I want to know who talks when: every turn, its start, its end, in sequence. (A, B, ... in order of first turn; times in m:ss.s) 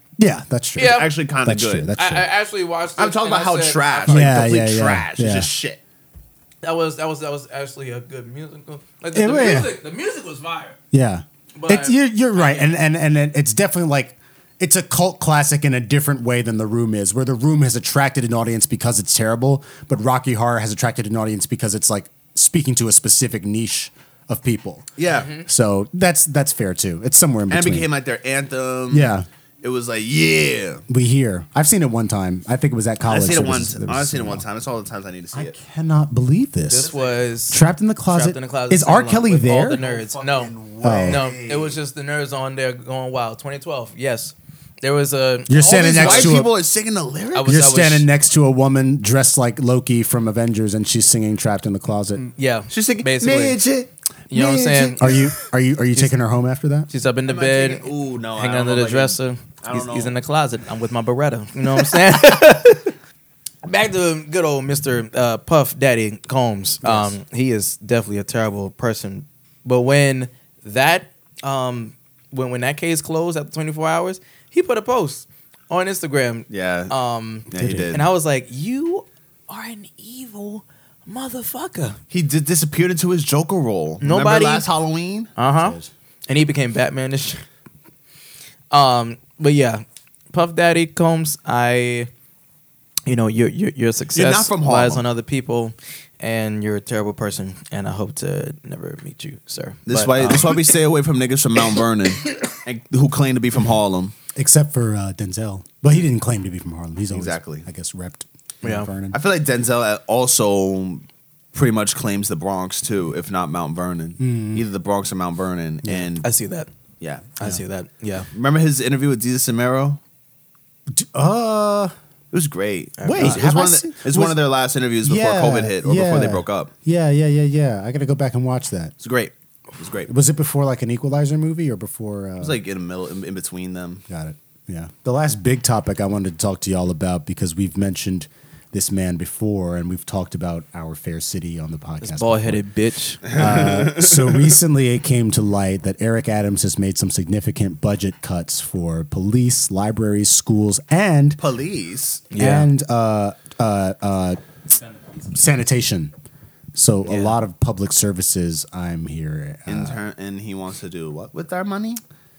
0:00.2-0:02.2 A
0:00.8-0:01.1 B
0:00.8-0:01.9 C
0:02.0-0:04.3 B
0:03.0-0:05.8 C
0:04.1-0:05.5 A
0:06.6-0:10.8 B
0:09.1-0:09.7 A
0:10.9-0:27.9 A
0:11.6-0:12.7 B
0:25.0-0:25.3 C
0:25.1-0:25.5 B
0:27.5-0:30.8 C
0:28.9-0:29.2 A
0:30.9-0:34.4 A
0:33.0-0:35.6 C
0:35.3-0:36.9 A
0:36.7-0:46.4 B
0:36.7-0:37.2 C
0:37.5-0:39.8 A
0:39.7-0:41.8 C
0:40.8-0:41.2 A
0:45.5-0:46.5 A
0:45.6-0:47.5 C
0:47.3-0:48.1 B
0:47.4-0:52.2 A
0:52.2-0:53.6 B
0:52.7-0:55.3 C
0:54.3-0:55.3 B
0:55.0-0:56.9 A
0:56.9-1:02.9 B
0:57.2-1:00.1 C
1:03.6-1:22.0 B
1:16.5-1:16.9 C
1:17.5-1:18.1 C
1:17.6-1:17.9 A
1:22.1-1:25.3 C
1:24.0-1:24.6 B
1:25.4-1:27.4 B
1:25.6-1:25.9 A
1:28.7-1:32.1 B
1:33.0-1:40.7 B
1:34.1-1:35.0 C
1:39.9-1:44.1 C
1:44.3-1:49.2 A
1:47.1-1:47.6 C
1:48.6-1:48.9 B
1:49.1-1:56.3 C
1:54.2-1:54.6 A
1:56.2-1:56.7 B
1:57.0-1:57.4 C
1:57.4-1:58.3 B
1:58.3-2:00.0 C
2:00.9-2:01.9 A
2:02.3-2:06.7 C
2:03.0-2:03.4 B
2:03.0-2:04.4 A
2:05.0-2:08.9 A
2:09.0-2:10.1 C
2:10.1-2:12.6 A
2:12.4-2:14.0 C
2:14.1-2:22.6 A
2:22.0-2:23.5 B
2:23.2-2:31.4 A
2:23.3-2:24.4 C
2:31.4-2:32.3 C
2:32.3-2:32.7 B
2:32.4-2:34.4 A
2:35.3-2:36.1 A
2:36.7-2:40.0 A
2:37.0-2:37.4 B
2:39.7-2:42.0 C